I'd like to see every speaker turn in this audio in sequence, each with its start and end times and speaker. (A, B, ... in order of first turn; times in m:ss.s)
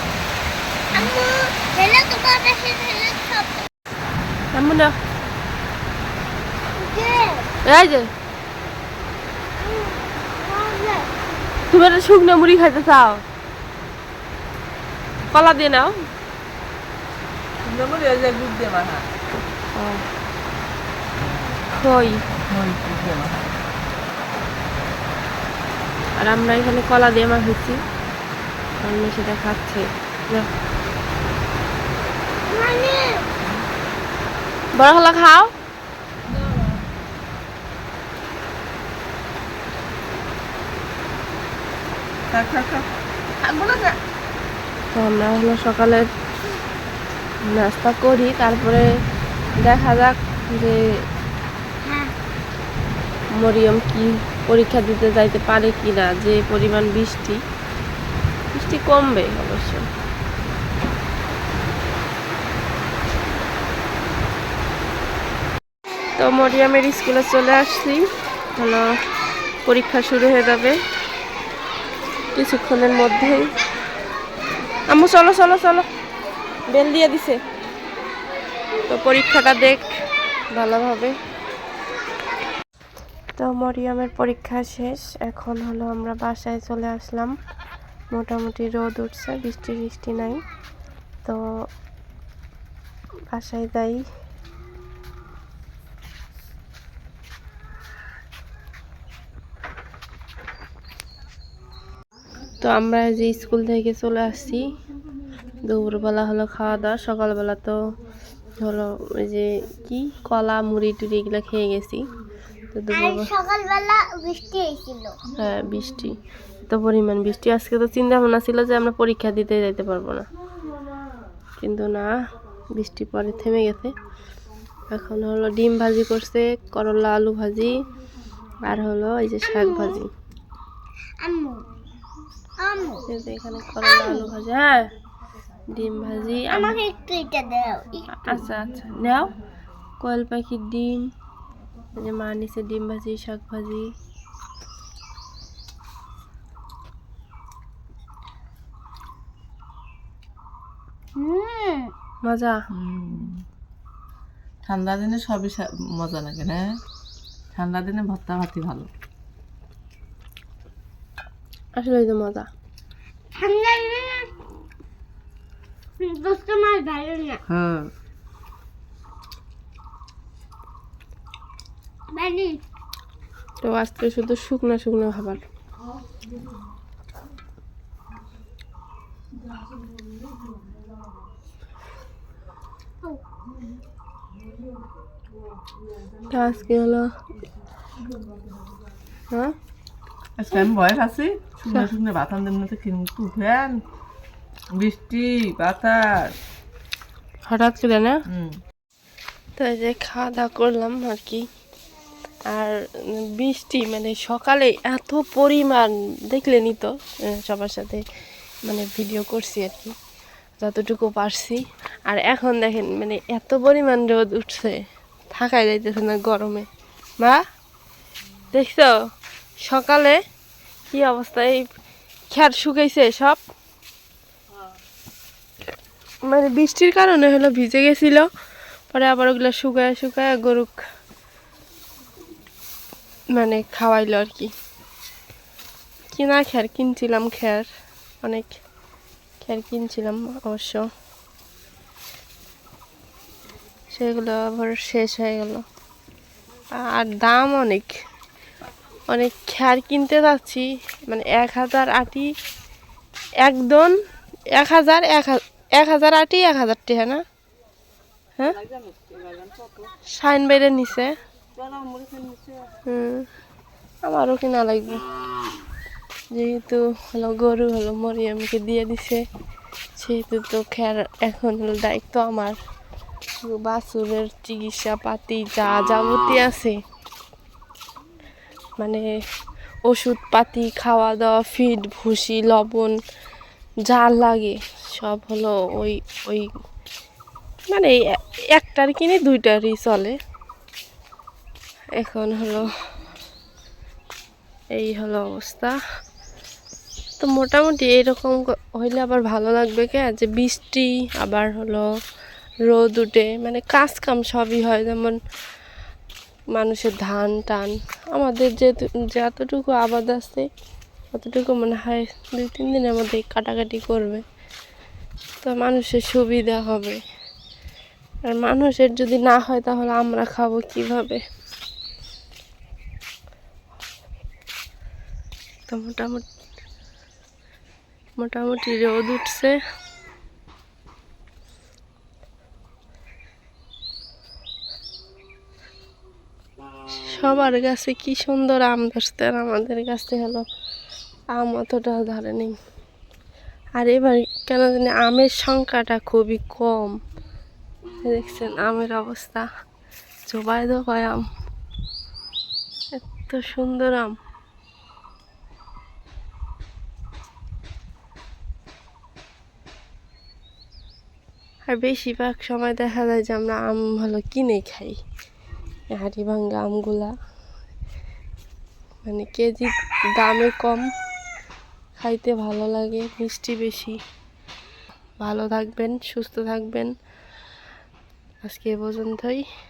0:00.9-0:03.7 A
0:04.5-0:05.0 B
0:06.8-0:07.5 A
0:07.6-0:08.1 B
0:09.6-0:11.1 A
0:11.7-0:13.2 B
0:15.3-0:15.9 B
0:17.6-0:19.1 C
0:19.7-0:20.1 B
0:21.7-0:22.2 B
0:22.5-0:23.4 C
0:26.2-0:27.8 B
0:28.8-0:30.5 B
0:32.5-0:33.3 A
0:34.8-0:35.5 B
0:36.4-0:36.8 C
0:42.3-0:42.9 C
0:43.4-0:44.0 C
0:44.9-0:46.1 B
0:47.4-0:48.9 B
0:49.6-0:50.8 B
0:51.8-0:52.2 A
0:53.4-0:57.4 B
0:58.5-0:59.9 B
1:06.2-1:08.9 B
1:09.6-1:10.8 B
1:12.4-1:13.5 B
1:14.9-1:15.9 B
1:16.7-1:17.4 B
1:18.9-1:19.9 B
1:20.5-1:21.2 B
1:23.4-1:27.4 B
1:28.1-1:30.4 B
1:33.3-1:34.0 B
1:42.6-1:44.6 B
1:45.7-1:47.8 B
1:48.6-1:52.0 B
1:52.7-1:53.3 B
1:52.9-1:55.2 A
1:55.4-2:00.3 B
2:01.6-2:02.1 B
2:02.8-2:03.9 B
2:04.9-2:07.8 B
2:08.6-2:10.1 B
2:09.5-2:10.0 A
2:11.2-2:11.7 A
2:12.6-2:13.1 A
2:13.1-2:14.9 B
2:13.8-2:14.1 A
2:15.7-2:16.8 B
2:16.5-2:18.1 A
2:18.1-2:19.3 B
2:20.0-2:21.1 B
2:22.0-2:23.9 B
2:31.2-2:31.9 A
2:32.2-2:32.6 B
2:32.7-2:33.4 C
2:34.6-2:36.6 C
2:37.5-2:38.9 C
2:41.8-2:42.5 B
2:43.3-2:44.4 A
2:46.0-2:47.4 A
2:47.5-2:47.9 C
2:52.1-2:52.6 A
2:53.6-2:55.4 B
3:06.3-3:07.1 B
3:09.3-3:09.6 B
3:10.4-3:13.8 C
3:14.7-3:16.4 C
3:17.5-3:18.2 B
3:18.3-3:18.6 C
3:19.6-3:21.5 B
3:22.5-3:28.0 B
3:28.6-3:30.0 B
3:30.6-3:36.7 B
3:38.5-3:39.0 B
3:39.6-3:40.2 B
3:40.9-3:41.7 B
3:42.3-3:43.4 B
3:46.2-3:48.3 B
3:48.9-3:50.7 B
3:53.3-3:54.5 B
3:56.1-3:57.7 B
3:58.2-3:58.5 B
3:59.4-4:00.9 B
4:03.9-4:05.6 B
4:06.7-4:07.9 B
4:09.1-4:12.3 B
4:13.4-4:14.0 B
4:14.5-4:17.2 B
4:18.4-4:18.6 B
4:20.1-4:21.2 B
4:22.8-4:23.3 B
4:24.0-4:25.0 B
4:26.3-4:29.2 B
4:30.0-4:32.6 B
4:33.4-4:36.8 B
4:39.9-4:43.0 B
4:43.9-4:46.5 B
4:47.7-4:50.2 B
4:52.0-4:52.7 B
4:54.8-4:55.8 B
4:57.2-5:01.9 B
5:02.7-5:05.2 B
5:06.5-5:10.5 B
5:11.1-5:14.2 B
5:15.4-5:17.0 B
5:18.3-5:21.2 B
5:25.7-5:26.2 B
5:28.2-5:29.6 B
5:37.0-5:40.4 B
5:41.3-5:42.6 B
5:43.8-5:47.0 B
5:48.0-5:49.5 B
5:50.3-5:51.3 B
5:53.0-5:54.2 B
6:01.7-6:05.0 B
6:05.9-6:07.1 B
6:09.0-6:10.9 B
6:12.0-6:14.0 B
6:15.2-6:16.9 B
6:18.4-6:19.4 B